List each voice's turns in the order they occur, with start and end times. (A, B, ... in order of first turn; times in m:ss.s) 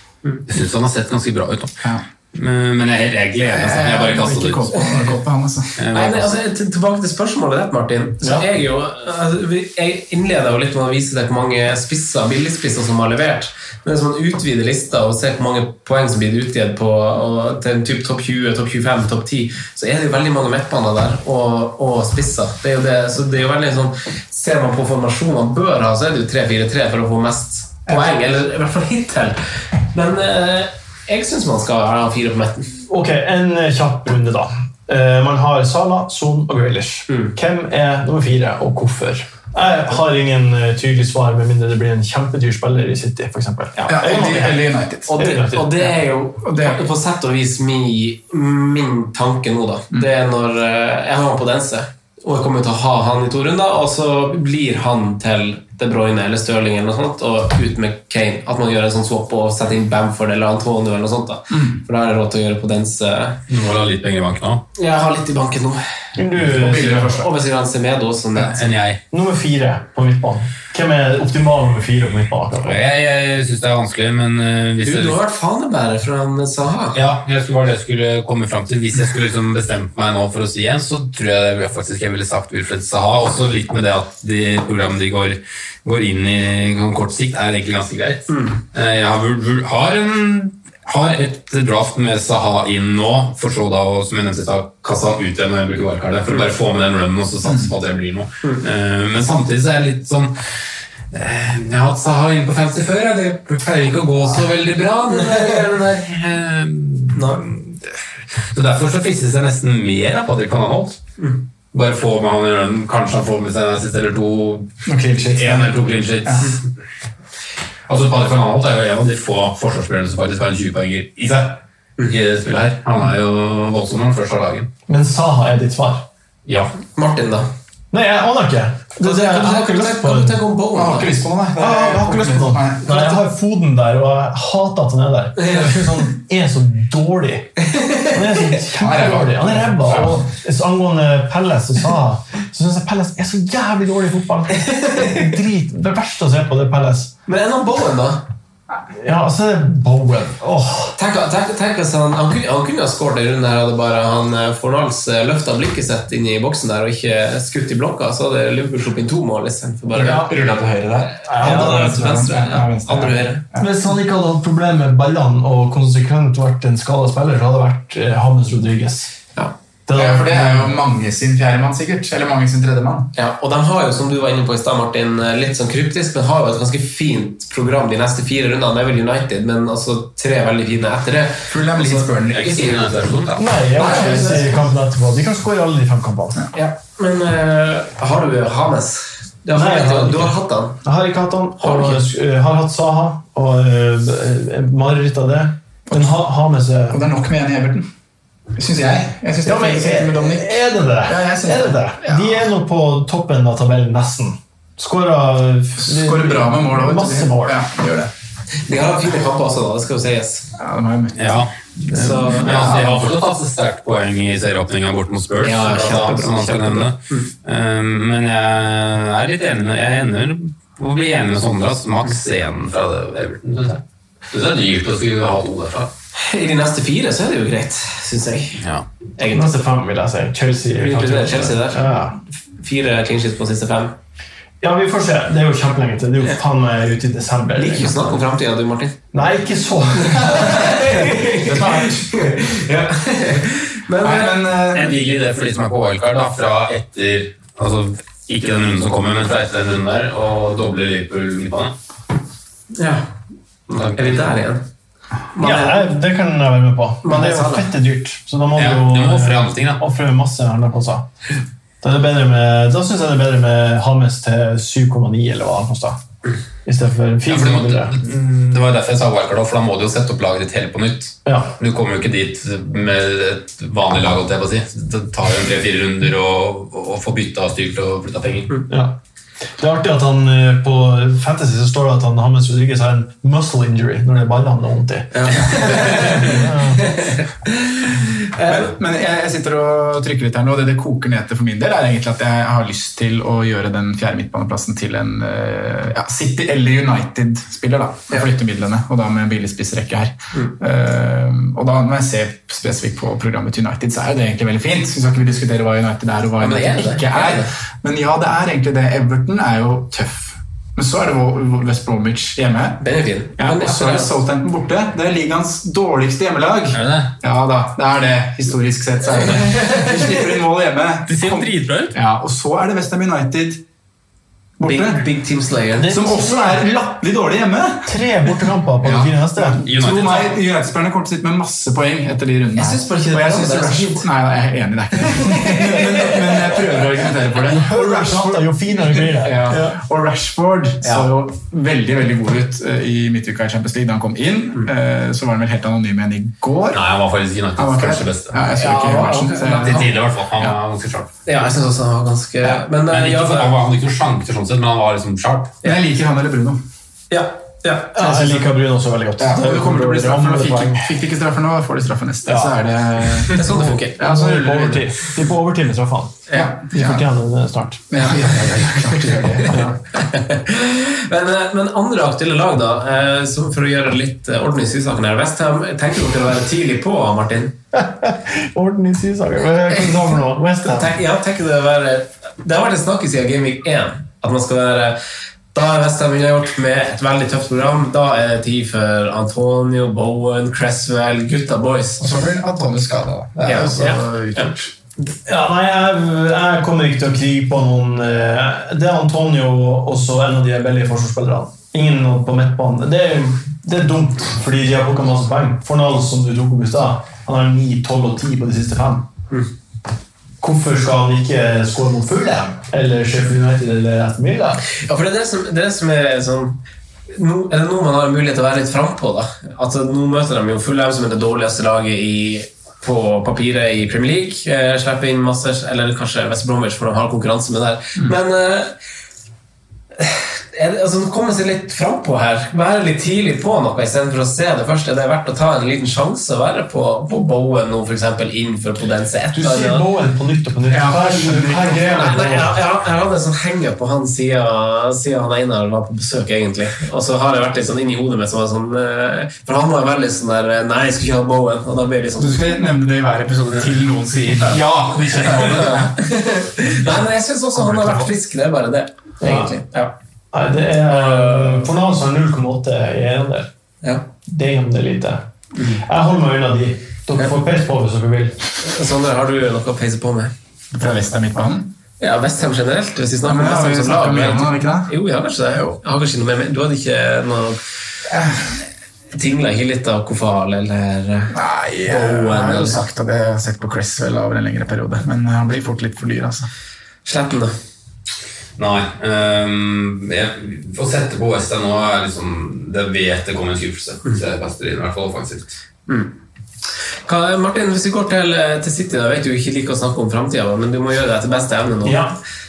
0:00.5-0:01.8 A
0:02.3-0:04.8 A
0:03.5-0:05.7 B
0:05.8-0:06.4 A
0:05.9-0:29.4 C
0:08.2-0:08.5 D
0:29.9-0:32.7 C
0:32.9-0:45.9 D
0:37.1-0:37.3 C
0:43.8-0:44.5 C
0:43.9-0:45.2 B
0:45.1-1:03.4 C
0:46.4-0:46.9 B
1:01.5-1:01.8 B
1:03.5-1:04.6 A
1:04.8-1:05.8 C
1:06.2-1:07.2 D
1:06.4-1:07.3 B
1:06.7-1:08.7 C
1:08.4-1:09.0 A
1:09.1-1:12.8 D
1:12.6-1:15.2 A
1:14.8-1:17.0 C
1:16.9-1:40.4 A
1:28.3-1:28.6 C
1:41.1-1:48.0 A
1:45.0-1:45.7 C
1:47.1-1:47.4 C
1:48.5-1:51.0 A
1:51.2-1:51.4 C
1:51.7-1:56.7 A
1:54.9-1:56.5 B
1:57.9-2:04.7 A
2:04.9-2:06.1 D
2:06.5-2:06.7 A
2:06.9-2:07.5 C
2:07.9-2:10.4 D
2:09.0-2:11.2 C
2:10.8-2:13.1 B
2:11.6-2:17.6 D
2:15.4-2:15.9 C
2:17.6-2:18.5 C
2:18.1-2:27.1 D
2:18.8-2:20.3 B
2:24.5-2:25.4 C
2:27.3-2:28.2 C
2:28.9-2:31.0 D
2:31.0-2:43.4 C
2:40.0-2:40.3 D
2:40.0-2:40.3 B
2:41.2-2:42.2 D
2:41.4-2:43.7 B
2:43.6-2:49.1 D
2:49.9-2:50.8 D
2:49.9-2:53.1 B
2:53.2-3:02.1 C
3:01.5-3:02.9 B
3:02.3-3:03.6 A
3:03.4-3:06.4 D
3:03.8-3:04.6 B
3:03.8-3:04.4 C
3:06.5-3:10.8 C
3:09.5-3:17.0 D
3:11.6-3:12.0 C
3:16.9-3:17.9 B
3:18.6-3:21.8 B
3:19.4-3:27.6 D
3:25.8-3:28.1 B
3:28.7-3:30.5 C
3:30.6-3:33.1 B
3:31.2-3:31.5 A
3:31.9-3:32.7 C
3:32.2-3:45.9 A
3:35.4-3:37.3 C
3:46.2-3:48.6 C
3:48.6-3:48.9 A
3:49.2-3:49.5 C
3:49.3-3:52.2 D
3:50.8-3:54.0 C
3:54.6-3:58.2 D
3:57.6-3:59.0 C
3:59.1-4:00.7 D
4:00.0-4:04.4 C
4:00.7-4:02.1 B
4:04.0-4:05.0 B
4:04.7-4:11.7 A
4:12.7-4:13.1 C
4:13.7-4:14.4 A
4:13.7-4:14.6 C
4:15.3-4:15.9 C
4:15.4-4:21.1 D
4:17.0-4:17.7 C
4:18.6-4:19.8 A
4:21.8-4:26.0 D
4:26.6-4:28.0 D
4:27.3-4:38.5 A
4:31.2-4:31.5 D
4:38.7-4:39.0 D
4:39.6-4:46.9 D
4:45.1-4:48.7 C
4:48.4-5:12.8 B
5:06.4-5:07.5 C
5:12.8-5:14.1 C
5:13.4-5:23.6 B
5:16.7-5:17.2 A
5:21.1-5:21.9 A
5:24.6-5:25.0 B
5:24.6-5:25.9 C
5:25.8-5:26.8 D
5:25.9-5:27.9 B
5:27.8-5:29.6 D
5:28.8-5:46.8 B
5:29.6-5:30.4 A
5:32.6-5:34.1 C
5:35.2-5:36.6 C
5:37.5-5:39.8 D
5:40.8-5:41.1 C
5:46.7-5:48.4 A
5:47.6-5:50.6 B
5:48.6-5:49.9 C
5:49.6-5:51.1 A
5:51.3-5:53.5 C
5:52.9-5:55.6 A
5:55.6-5:56.6 B
5:57.1-5:58.4 C
5:57.9-6:01.0 D
5:59.2-6:04.8 B
6:02.3-6:02.6 D
6:03.3-6:04.4 C
6:03.4-6:07.9 D
6:06.3-6:07.1 B
6:07.9-6:09.7 B
6:09.5-6:09.8 D
6:10.0-6:17.6 C
6:17.7-6:21.0 D
6:20.6-6:25.0 C
6:25.5-6:32.3 C
6:32.0-6:34.7 B
6:33.4-6:34.5 C
6:35.3-6:49.1 D
6:50.4-6:54.6 D
6:54.8-6:56.6 C
6:57.1-7:08.7 C
7:10.0-7:19.9 C
7:19.3-7:22.6 D
7:20.7-7:22.3 B
7:21.8-7:32.5 C
7:32.2-7:37.0 B
7:34.4-7:35.7 D
7:35.5-7:39.9 C
7:37.6-7:38.1 B
7:39.2-7:39.6 D
7:40.3-7:43.5 D
7:40.9-7:41.7 C
7:44.3-7:45.3 D
7:45.8-7:48.4 D
7:48.6-7:50.3 C
7:50.7-7:51.7 B
7:52.0-7:57.6 C
7:53.2-7:54.9 B
7:58.1-7:58.6 B
7:59.1-8:01.4 C
8:01.3-8:06.5 B
8:01.9-8:02.8 C
8:07.0-8:07.5 C
8:08.6-8:15.6 A
8:15.9-8:16.2 C
8:17.1-8:22.1 C
8:21.8-8:22.2 D